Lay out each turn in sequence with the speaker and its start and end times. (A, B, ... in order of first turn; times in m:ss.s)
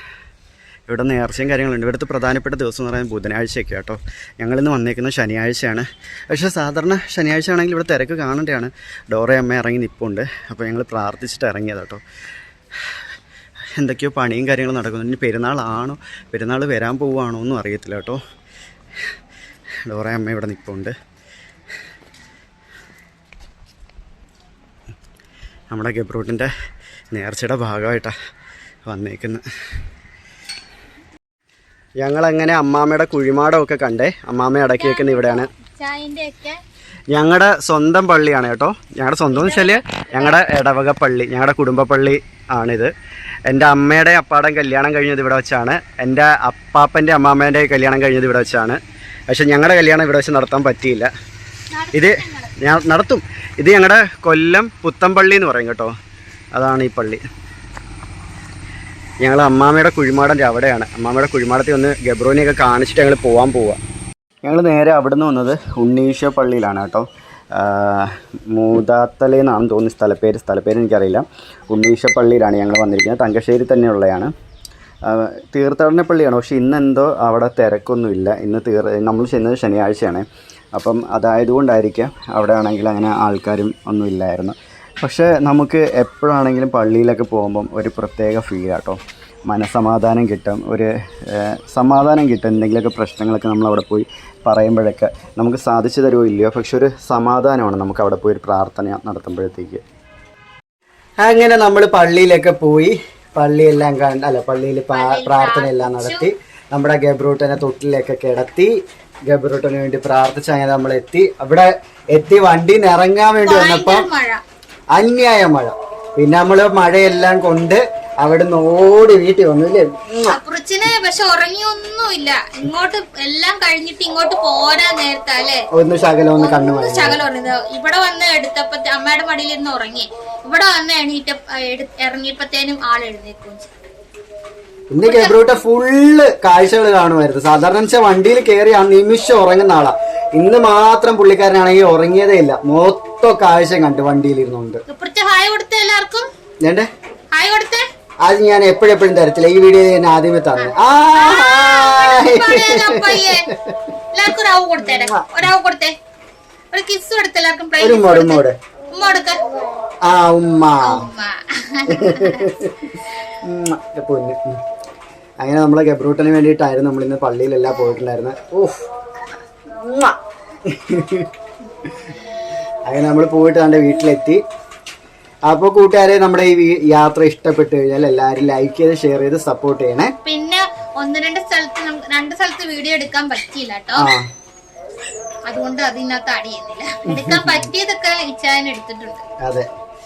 0:00.9-0:12.0 A
0:13.8-0:18.2 A
0:19.9-0:21.0 A
0:25.7-0:26.5 A
0:27.1-0:28.2 A
0:28.9-0:29.4 A
0:32.0-0:35.5 A
0:34.8-0:36.6 B
0:37.1-0:42.9 A
0:39.3-0:40.4 B
0:43.5-0:51.1 A
0:51.7-0:52.5 B
0:51.9-0:55.9 A
0:56.6-0:57.2 A
0:59.2-1:03.8 A
1:04.4-1:14.3 A
1:15.1-1:39.8 A
1:41.2-1:48.7 A
1:44.9-1:46.3 B
1:49.3-1:54.1 A
1:53.4-1:54.4 B
1:55.0-2:00.4 A
2:00.3-2:05.7 B
2:05.7-2:07.2 A
2:06.4-2:13.7 B
2:14.9-2:24.8 A
2:15.0-2:15.4 B
2:24.9-2:26.3 B
2:27.3-2:27.8 B
2:28.2-2:33.8 A
2:30.6-2:33.5 B
2:34.1-2:36.0 B
2:34.8-2:35.3 A
2:36.7-2:39.4 B
2:37.8-2:38.6 A
2:40.0-2:41.0 A
2:40.8-2:42.5 B
2:41.9-2:44.6 A
2:45.4-2:48.9 A
2:49.7-2:50.2 A
2:50.7-2:51.3 A
2:52.9-2:54.4 A
2:55.5-3:00.1 A
3:00.2-3:04.1 B
3:04.0-3:04.3 A
3:05.5-3:09.2 B
3:07.1-3:07.7 A